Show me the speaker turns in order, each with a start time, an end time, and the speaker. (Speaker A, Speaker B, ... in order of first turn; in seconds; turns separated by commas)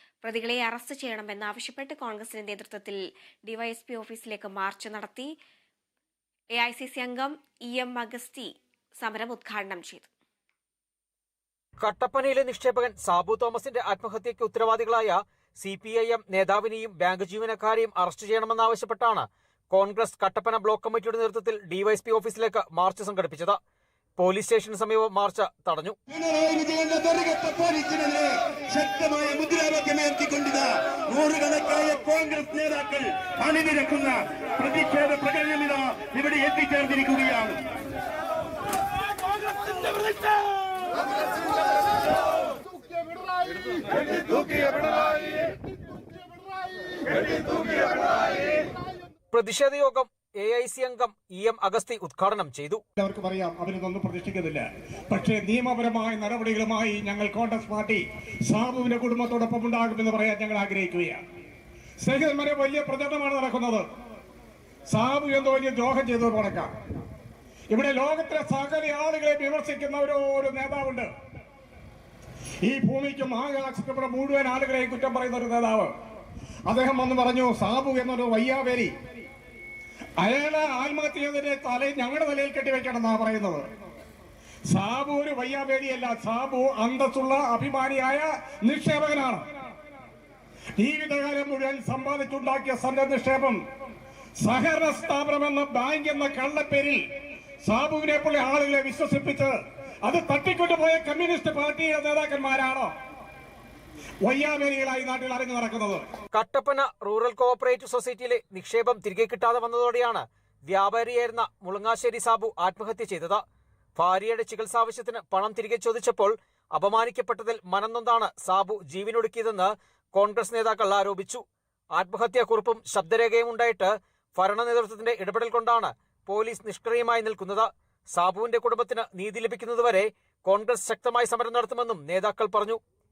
Speaker A: 0.2-5.3, Speaker A: 6.5-10.1, Speaker B: 11.8-23.6, Speaker B: 24.2-25.9, Speaker C: 26.1-37.6, Speaker B: 49.3-52.8, Speaker D: 53.0-61.2, Speaker D: 62.0-63.8, Speaker D: 64.9-66.7, Speaker D: 67.7-71.1, Speaker D: 72.6-75.9, Speaker D: 76.7-78.9, Speaker D: 80.2-83.6, Speaker D: 84.7-89.4, Speaker D: 90.8-93.6, Speaker D: 94.4-97.0, Speaker D: 97.7-102.9, Speaker D: 104.2-106.0, Speaker B: 106.3-113.4, Speaker B: 114.0-121.4, Speaker B: 121.9-132.8